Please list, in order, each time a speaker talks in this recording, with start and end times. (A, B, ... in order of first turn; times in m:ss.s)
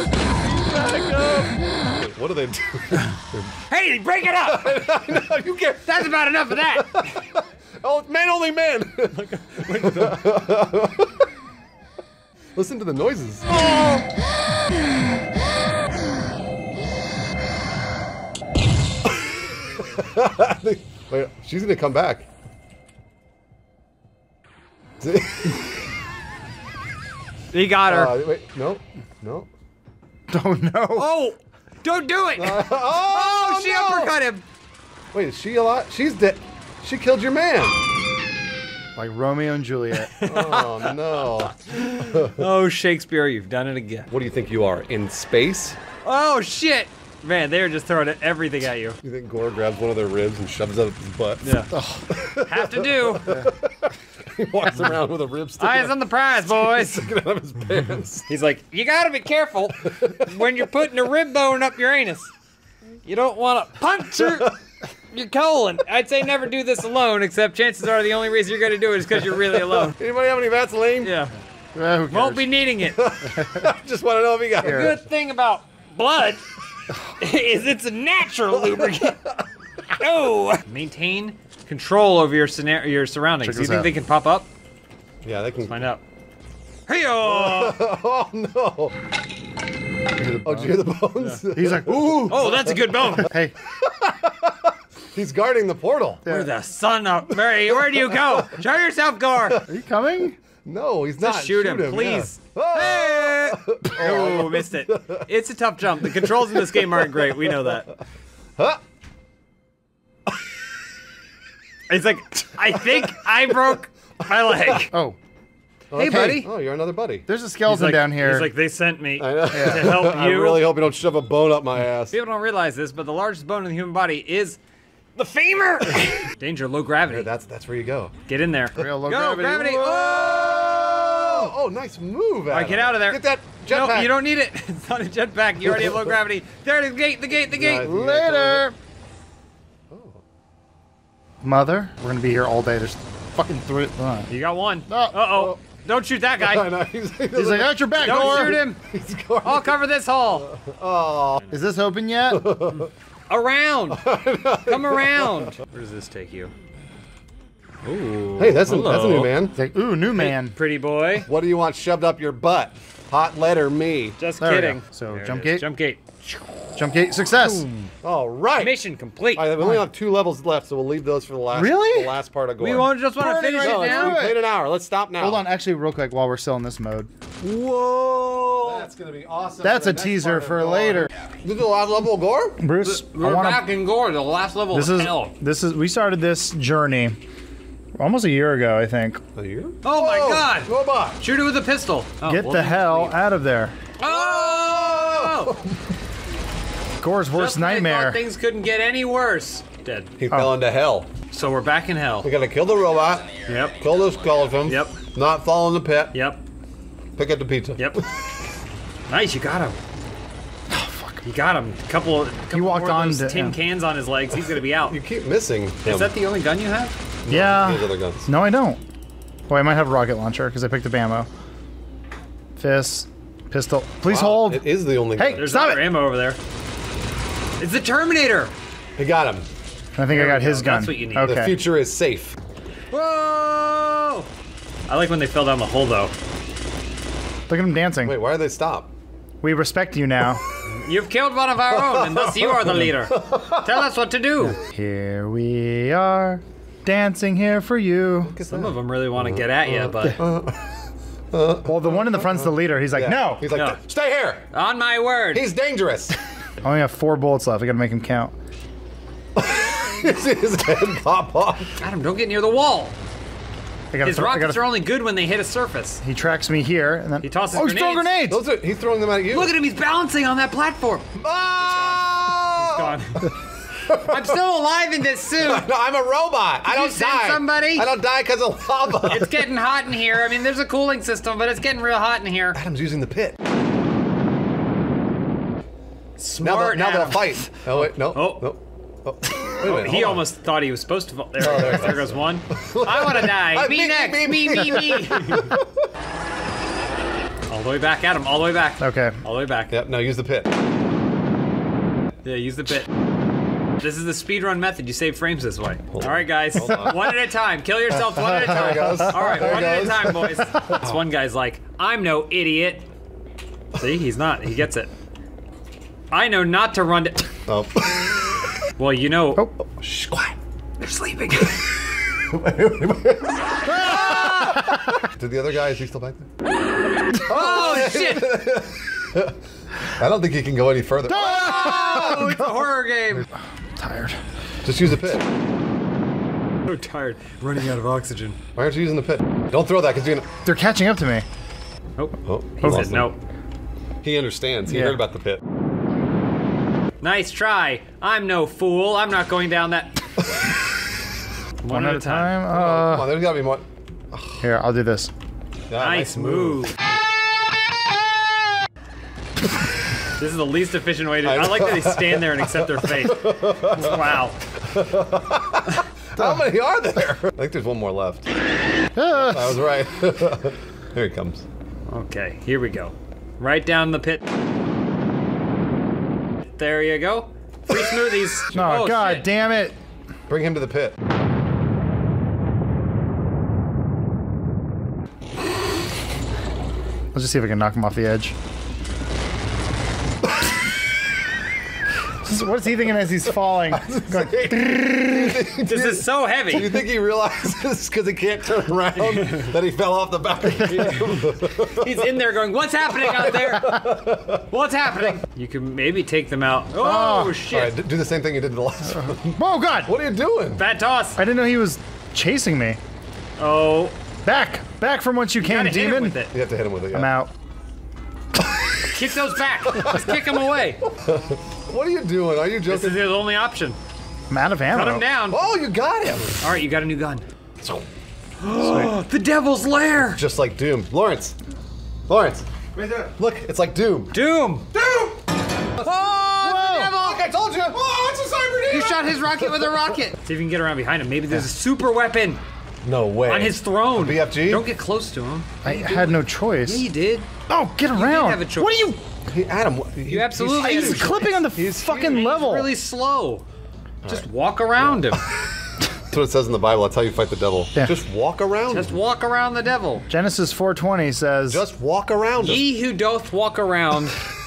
0:00.6-0:03.5 A
0:03.7-0:04.9 B
0:04.4-0:11.1 A
0:05.8-0:07.1 B
0:09.1-0:10.2 B
0:12.6-0:13.7 A
0:13.6-0:14.0 B
0:19.8-0:22.2 A
0:25.0-0:25.7 A
0:27.5-0:28.1 B
0:27.9-0:29.5 A
0:30.3-0:31.1 C
0:31.0-0:34.4 B
0:32.4-0:34.1 A
0:35.1-0:37.8 A
0:39.0-0:40.1 C
0:40.1-0:44.1 B
0:40.2-0:42.4 A
0:44.1-0:45.8 A
0:46.0-0:49.0 B
0:49.0-0:58.2 A
0:51.4-0:51.7 B
0:51.7-0:52.1 C
0:52.4-0:53.4 B
0:55.6-0:57.1 B
0:58.3-1:02.3 B
0:59.8-1:00.4 A
1:03.0-1:04.5 B
1:04.2-1:04.6 A
1:05.1-1:10.0 B
1:09.4-1:11.2 A
1:11.0-1:11.3 B
1:11.7-1:12.5 C
1:12.1-1:13.2 B
1:13.0-1:15.0 A
1:13.4-1:13.7 C
1:14.6-1:15.0 C
1:14.6-1:16.5 B
1:17.1-1:19.2 B
1:18.5-1:19.5 A
1:20.0-1:24.5 B
1:23.4-1:23.9 C
1:25.2-1:25.9 A
1:25.7-1:26.0 B
1:26.9-1:27.8 B
1:27.2-1:29.0 A
1:30.2-1:30.9 C
1:30.2-1:33.2 A
1:31.5-1:32.4 C
1:32.3-1:33.3 B
1:33.1-1:33.5 C
1:33.7-1:36.2 A
1:36.2-1:36.5 C
1:36.2-1:39.6 B
1:37.3-1:38.6 A
1:39.7-1:40.4 C
1:40.6-1:45.3 A
1:41.2-1:47.9 B
1:46.0-1:47.8 A
1:51.9-1:54.9 B
1:54.5-1:54.9 A
1:54.9-1:55.2 C
1:55.9-1:57.3 A
1:55.9-1:56.5 B
1:56.0-1:56.5 C
1:57.3-1:58.5 C
1:57.6-2:00.7 B
1:59.2-2:02.2 A
1:59.5-1:59.9 C
2:02.1-2:04.6 B
2:05.2-2:07.3 B
2:07.1-2:08.1 A
2:08.3-2:11.3 B
2:08.7-2:10.1 C
2:09.7-2:14.2 A
2:12.5-2:17.9 B
2:15.6-2:16.1 A
2:17.5-2:18.6 A
2:17.8-2:18.8 C
2:19.9-2:20.2 A
2:21.4-2:24.3 C
2:24.3-2:26.7 B
2:24.9-2:25.2 C
2:26.4-2:29.8 A
2:27.3-2:28.6 C
2:28.0-2:28.8 B
2:29.4-2:30.5 B
2:30.3-2:31.4 A
2:31.5-2:32.4 C
2:32.3-2:32.9 A
2:33.3-2:34.0 B
2:33.9-2:35.5 A
2:34.6-2:36.5 B
2:37.8-2:39.3 B
2:38.4-2:39.6 A
2:39.5-2:40.6 C
2:40.2-2:41.3 B
2:41.2-2:44.2 A
2:44.2-2:46.2 B
2:44.4-2:45.6 C
2:46.8-2:47.7 C
2:47.4-2:47.9 B
2:48.0-2:48.8 A
2:48.6-2:49.6 B
2:49.3-2:53.0 A
2:49.6-2:49.8 C
2:51.5-2:52.1 C
2:52.6-2:54.2 B
2:53.2-2:54.4 C
2:53.6-2:55.4 A
2:55.2-2:57.1 C
2:57.4-3:02.6 A
2:58.3-2:58.8 B
2:59.6-3:01.1 C
3:02.6-3:03.7 C
3:02.8-3:05.3 B
3:04.7-3:07.2 C
3:08.0-3:09.2 C
3:09.4-3:11.2 A
3:09.8-3:13.2 B
3:12.2-3:13.8 C
3:14.0-3:15.6 B
3:14.0-3:15.9 A
3:17.0-3:18.2 C
3:17.3-3:20.1 B
3:20.2-3:21.1 A
3:21.3-3:22.3 B
3:22.2-3:26.2 A
3:23.4-3:23.8 B
3:24.6-3:25.0 B
3:26.1-3:26.4 B
3:27.2-3:28.1 A
3:29.1-3:29.8 B
3:30.7-3:31.2 C
3:31.2-3:35.0 B
3:32.5-3:33.6 C
3:34.7-3:36.1 A
3:35.8-3:37.0 B
3:37.2-3:38.3 A
3:37.3-3:38.8 C
3:39.5-3:41.3 C
3:42.6-3:45.8 C
3:44.0-3:45.5 A
3:45.4-3:46.4 B
3:47.6-3:48.5 B
3:49.0-3:49.5 A
3:50.0-3:51.6 C
3:50.1-3:51.4 B
3:51.2-3:52.3 A
3:52.9-3:54.3 B
3:54.9-3:56.1 B
3:57.5-3:58.2 C
3:58.0-3:58.9 A
3:59.4-4:00.4 C
4:00.7-4:04.6 B
4:01.7-4:03.8 A
4:04.7-4:08.3 C
4:08.2-4:10.7 A
4:08.4-4:10.2 B
4:11.3-4:14.4 A
4:11.6-4:13.5 C
4:13.5-4:13.8 B
4:14.5-4:15.4 B
4:15.3-4:16.2 A
4:16.6-4:18.3 C
4:19.4-4:21.8 A
4:21.8-4:22.9 B
4:23.9-4:24.6 C
4:24.0-4:26.0 B
4:26.0-4:28.4 C
4:27.2-4:28.1 B
4:28.3-4:29.5 A
4:29.3-4:31.1 B
4:31.2-4:33.3 A
4:32.6-4:33.3 B
4:33.8-4:34.3 A
4:34.0-4:35.7 B
4:35.4-4:39.4 A
4:36.7-4:37.8 B
4:39.0-4:42.6 B
4:42.5-4:43.4 A
4:46.2-4:48.5 B
4:46.4-4:50.2 A
4:49.5-4:55.6 B
4:51.4-4:55.8 A
4:57.5-4:59.7 B
4:58.8-4:59.2 C
4:59.7-5:00.5 A
5:02.2-5:02.9 B
5:03.8-5:12.9 B
5:05.9-5:07.1 A
5:08.0-5:11.0 A
5:08.6-5:09.4 C
5:13.8-5:14.9 B
5:16.1-5:17.3 B
5:17.5-5:18.4 A
5:18.8-5:19.5 B
5:19.8-5:20.3 A
5:20.8-5:21.6 B
5:22.2-5:26.3 A
5:23.6-5:24.7 B
5:23.7-5:24.9 C
5:27.1-5:32.5 A
5:27.2-5:28.4 B
5:31.1-5:32.3 C
5:31.1-5:33.3 B
5:33.1-5:34.2 C
5:34.6-5:35.2 A
5:36.7-5:38.4 B
5:38.5-5:40.3 A
5:40.4-5:41.2 C
5:42.0-5:43.2 B
5:42.2-5:43.1 A
5:44.0-5:45.4 A
5:44.7-5:45.0 C
5:47.0-5:49.9 B
5:51.6-5:52.5 B
5:51.7-5:53.2 C
5:52.5-5:54.4 A
5:54.4-5:55.1 C
5:55.7-5:56.7 A
5:55.8-5:56.7 B
6:00.2-6:04.4 B
6:01.2-6:08.3 A
6:08.9-6:09.6 C
6:09.1-6:11.4 A
6:11.9-6:14.2 B
6:16.5-6:19.3 B
6:17.7-6:18.6 A
6:18.5-6:19.8 C
6:20.3-6:21.0 A
6:27.1-6:28.3 C
6:32.2-6:35.4 C
6:33.7-6:42.2 A
6:35.6-6:36.8 B
6:39.0-6:39.5 B
6:40.4-6:41.2 C
6:40.6-6:43.8 B
6:42.9-6:44.5 A
6:44.5-6:47.7 B
6:46.7-6:47.4 C
6:47.5-6:50.6 A
6:48.9-6:49.9 C
6:50.6-6:51.2 B
6:51.2-6:52.8 C
6:53.4-6:54.0 B
6:54.2-6:56.2 C
6:55.4-6:56.3 B
6:56.3-6:57.1 A
6:56.9-6:57.3 C
6:58.4-6:58.9 A
6:58.9-7:00.8 B
6:59.6-7:00.3 A
7:00.9-7:03.0 A
7:02.7-7:03.8 B
7:04.3-7:05.0 C
7:04.7-7:05.4 B
7:05.3-7:06.4 A
7:06.4-7:07.2 B
7:08.4-7:10.2 B
7:08.6-7:08.9 C
7:10.1-7:11.4 A
7:12.1-7:14.1 A
7:14.1-7:14.7 B
7:14.7-7:15.2 A
7:15.8-7:17.2 B
7:16.4-7:16.9 C
7:16.9-7:19.8 A
7:18.7-7:22.4 B
7:22.8-7:24.6 A
7:23.2-7:27.3 B
7:25.6-7:26.9 C
7:27.5-7:29.0 C
7:27.9-7:28.9 B
7:29.3-7:32.2 A
7:30.1-7:31.2 B
7:30.6-7:32.7 C
7:32.0-7:33.4 B
7:34.1-7:35.2 B
7:36.1-7:39.0 A
7:38.7-7:40.0 B
7:40.1-7:41.6 C
7:41.5-7:42.6 A
7:42.4-7:44.2 B